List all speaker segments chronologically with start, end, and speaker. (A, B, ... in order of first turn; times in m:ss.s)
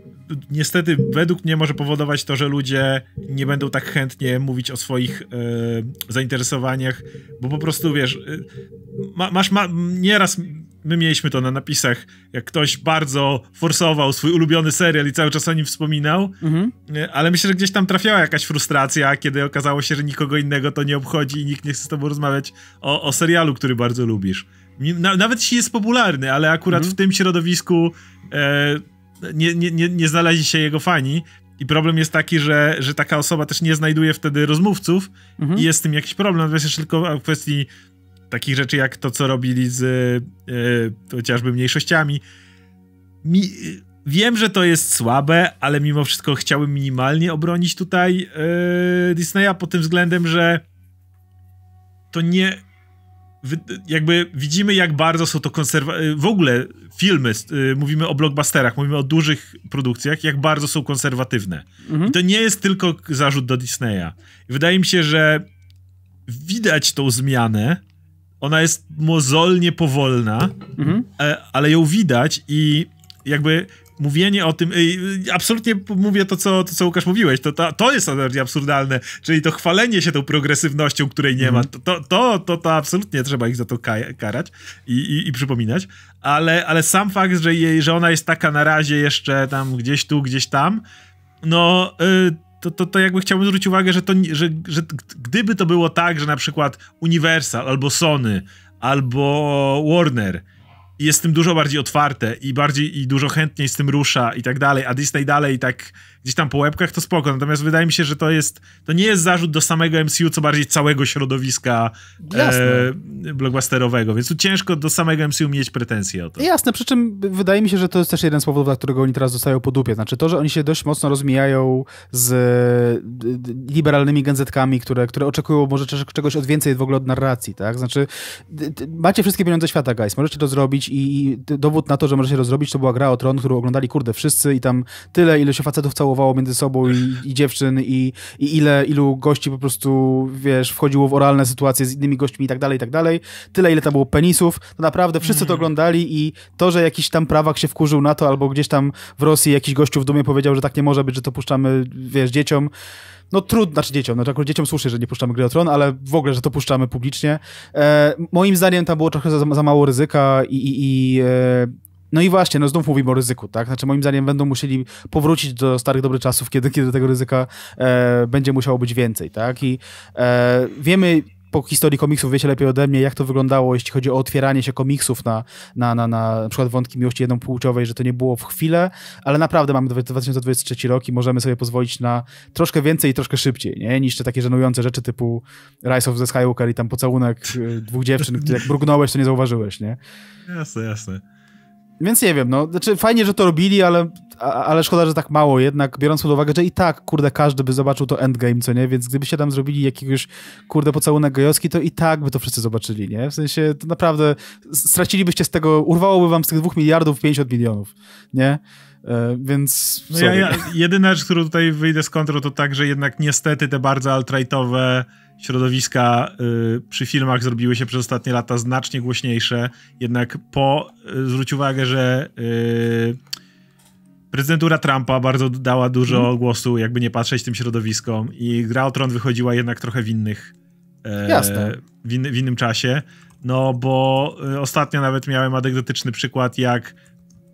0:00.3-0:37.7 A
0:16.4-0:16.7 B
0:35.4-0:35.6 B
0:38.3-0:42.2 A
0:43.2-0:50.6 A
0:52.1-0:52.6 A
0:53.4-1:05.4 A
1:01.9-1:02.2 B
1:06.3-1:07.8 A
1:08.4-1:30.8 A
1:10.8-1:11.0 B
1:21.4-1:21.7 B
1:31.4-1:40.4 A
1:41.0-1:56.4 A
1:52.2-1:52.9 B
1:56.4-2:32.7 B
2:25.2-2:25.7 A
2:33.3-3:10.0 B
3:08.3-3:08.6 A
3:10.5-3:11.2 A
3:12.0-3:30.6 B
3:30.1-3:43.2 A
3:44.3-3:50.5 A
3:51.0-3:56.9 A
3:51.3-3:51.8 B